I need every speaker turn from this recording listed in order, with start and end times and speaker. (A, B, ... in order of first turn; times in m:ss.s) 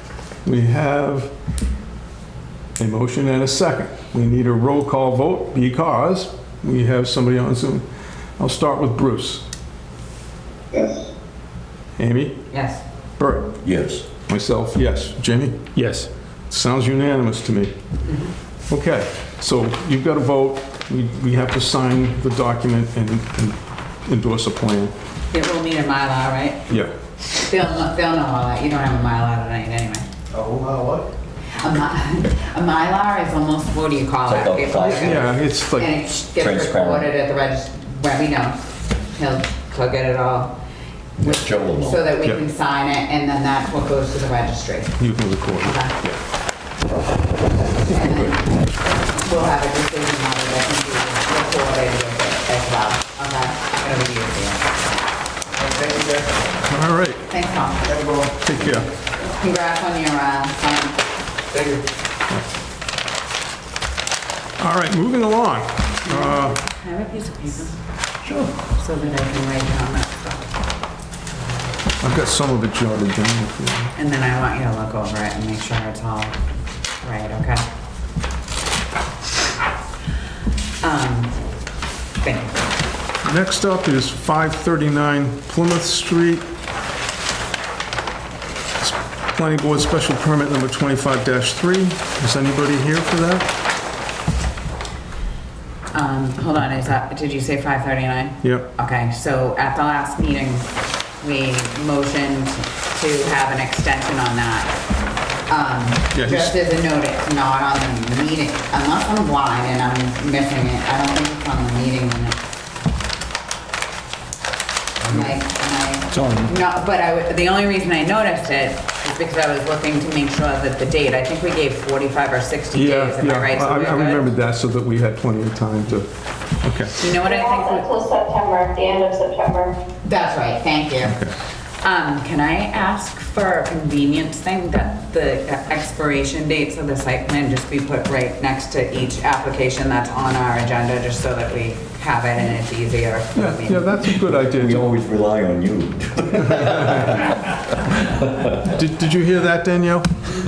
0:00.4-0:01.3 A
0:02.8-0:07.8 A
0:08.4-0:09.4 A
0:12.0-0:12.4 A
0:12.5-0:12.8 B
0:13.2-0:13.5 A
0:13.6-0:14.0 C
0:14.2-0:15.7 A
0:15.8-0:16.0 D
0:16.5-0:17.7 A
0:18.0-0:18.3 B
0:18.7-0:24.9 A
0:25.3-0:26.7 B
0:27.3-0:30.0 B
0:30.3-0:31.1 E
0:31.6-0:38.6 B
0:34.2-0:35.3 C
0:34.8-0:36.2 A
0:36.4-0:37.1 C
0:39.1-0:40.6 B
0:41.2-0:42.0 C
0:41.2-0:45.0 B
0:45.0-0:46.2 A
0:45.6-0:46.0 B
0:47.6-0:54.7 B
0:55.6-0:56.4 E
0:56.6-0:57.3 A
0:57.3-0:58.0 B
0:57.9-0:58.3 E
0:58.4-0:58.9 A
0:59.2-1:01.0 B
1:01.5-1:01.8 E
1:04.6-1:06.6 A
1:06.0-1:07.8 B
1:08.2-1:08.5 C
1:08.7-1:10.5 B
1:12.0-1:13.9 A
1:13.9-1:16.4 B
1:17.0-1:17.6 B
1:20.8-1:21.4 B
1:22.2-1:22.7 B
1:23.2-1:26.4 A
1:28.8-1:33.5 A
1:35.9-1:44.7 B
1:38.4-1:38.7 A
1:45.5-1:52.4 B
1:46.1-1:46.5 A
1:55.1-2:04.3 B
1:56.2-1:56.5 E
2:02.7-2:06.1 A
2:06.6-2:06.9 A
2:07.0-2:07.9 B
2:07.2-2:09.8 D
2:10.0-2:11.2 B
2:11.0-2:11.3 A
2:11.8-2:23.9 B
2:23.3-2:24.9 A
2:24.2-2:27.3 C
2:26.6-2:27.2 A
2:28.6-2:30.1 A